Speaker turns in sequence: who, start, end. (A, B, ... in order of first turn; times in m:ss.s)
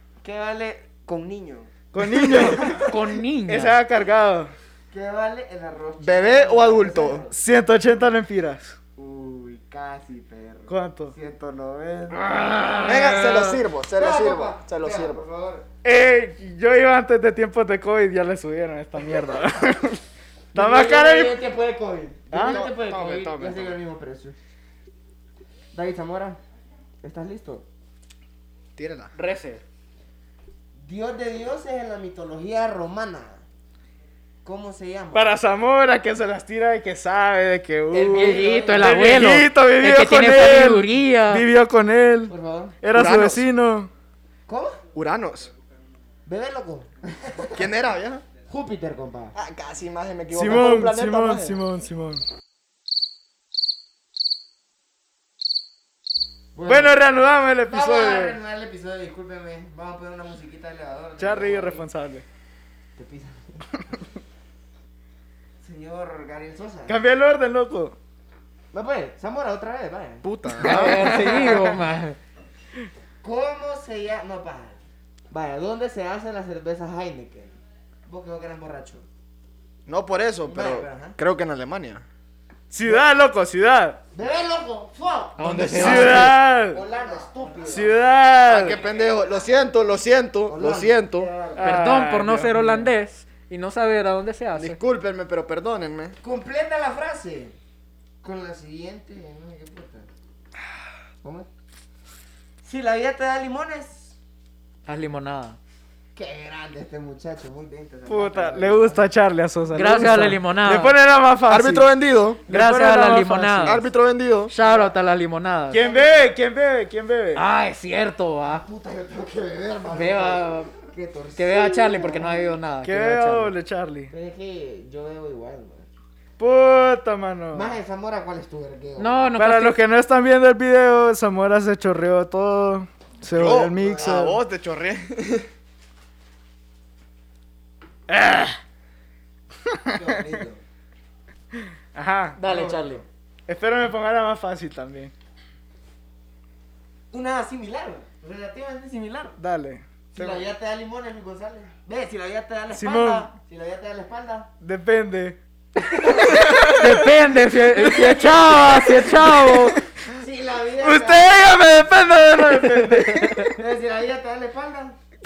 0:00.2-0:02.8 A
0:01.9-0:02.9 B
0:02.4-0:03.8 C
0:03.5-0:04.5 B
0:04.9-0:07.4 A
0:06.0-0:07.2 D
0:07.3-0:08.7 B
0:09.0-0:12.4 A
0:10.7-0:11.1 B
0:12.1-0:13.6 C
0:12.8-0:15.2 D
0:14.0-0:15.6 A
0:15.8-0:20.0 B
0:20.5-0:21.4 B
0:20.5-0:24.3 A
0:22.3-0:22.6 B
0:22.5-0:23.8 D
0:25.7-0:26.4 A
0:27.0-0:27.6 A
0:28.8-0:29.1 D
0:29.1-0:29.6 C
0:30.8-0:33.4 A
0:34.4-0:35.3 A
0:35.1-0:43.9 B
0:37.9-0:41.5 C
0:38.0-0:39.0 A
0:42.3-0:42.8 A
0:42.9-0:43.5 D
0:44.5-0:44.8 A
0:44.9-0:45.5 D
0:46.2-0:47.7 A
0:47.5-0:48.2 D
0:48.5-0:49.3 A
0:49.3-0:51.6 D
0:50.3-0:52.2 B
0:56.5-0:57.0 A
0:56.6-0:58.4 B
0:57.7-1:01.8 A
1:01.2-1:02.2 B
1:03.0-1:03.7 A
1:05.6-1:07.0 A
1:06.9-1:08.0 B
1:08.7-1:11.6 A
1:10.2-1:11.1 D
1:10.6-1:12.2 C
1:10.6-1:11.6 B
1:13.2-1:19.0 A
1:19.8-1:22.0 D
1:20.4-1:21.2 A
1:22.7-1:24.0 B
1:24.1-1:27.9 A
1:25.4-1:26.4 C
1:25.7-1:26.8 B
1:27.6-1:28.8 B
1:28.4-1:31.3 D
1:28.7-1:29.4 A
1:30.5-1:31.8 A
1:31.6-1:32.9 B
1:31.6-1:34.8 C
1:34.6-1:36.2 D
1:36.2-1:37.6 A
1:38.2-1:40.1 A
1:41.2-1:41.5 A
1:42.6-1:44.1 A
1:44.8-1:45.6 C
1:46.1-1:49.0 A
1:48.1-1:51.9 B
1:49.7-1:50.9 C
1:51.5-1:52.4 D
1:52.5-1:53.8 B
1:52.5-1:53.8 C
1:53.6-1:54.5 D
1:54.5-1:55.8 C
1:54.6-1:55.0 A
1:55.7-1:57.4 B
1:55.7-1:56.3 A
1:57.3-1:58.6 C
1:58.5-2:02.6 A
1:59.9-2:00.7 C
2:01.4-2:03.5 C
2:02.8-2:04.1 B
2:04.1-2:05.9 A
2:06.4-2:07.7 B
2:07.5-2:09.3 A
2:09.0-2:09.8 C
2:09.4-2:14.4 B
2:13.3-2:15.5 D
2:13.7-2:14.2 A
2:18.1-2:18.6 B
2:19.9-2:20.6 A
2:21.9-2:22.4 B
2:22.4-2:23.0 C
2:22.4-2:23.0 A
2:23.5-2:25.1 B
2:27.1-2:29.4 A
2:29.4-2:30.4 B
2:30.1-2:34.5 A
2:32.7-2:33.3 B
2:34.6-2:35.4 B
2:36.1-2:37.0 B
2:36.6-2:39.8 C
2:37.8-2:39.8 B
2:37.8-2:38.8 A
2:40.2-2:41.3 A
2:40.8-2:43.6 B
2:43.4-2:45.0 A